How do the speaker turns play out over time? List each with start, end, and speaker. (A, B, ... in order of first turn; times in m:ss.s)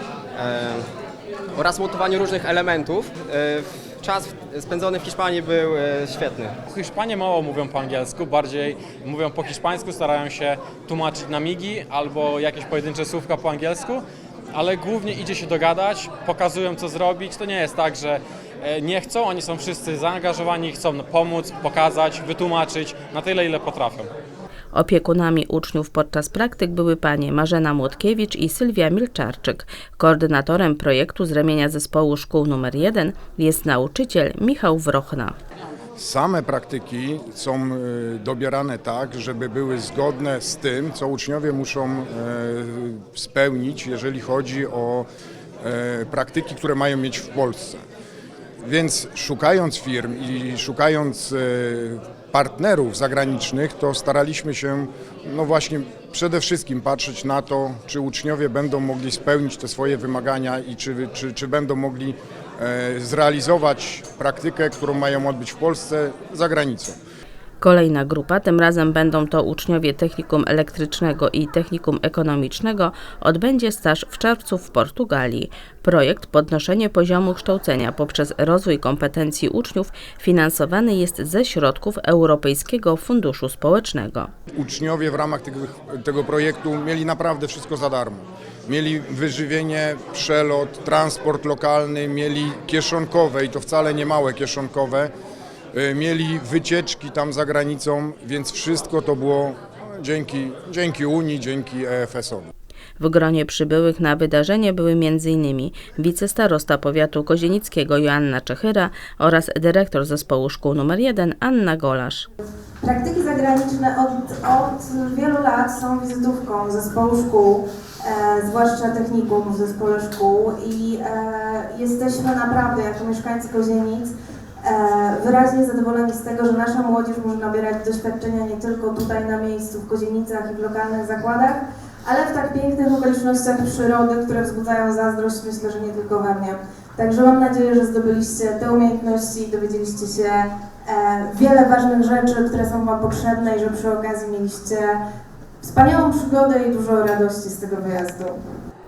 0:00.4-0:00.8 A
0:01.6-0:06.6 A
0:06.6-0:14.0 B
0:14.5-0:24.1 B
0:24.7-0:35.4 C
0:36.0-0:45.1 D
0:45.6-0:47.8 D
0:48.6-1:07.0 D
1:07.6-1:24.3 C
1:24.6-1:35.1 D
1:35.7-1:42.5 D
1:43.0-1:52.3 C
1:52.8-2:04.1 E
2:04.6-2:25.0 E
2:25.6-2:28.4 E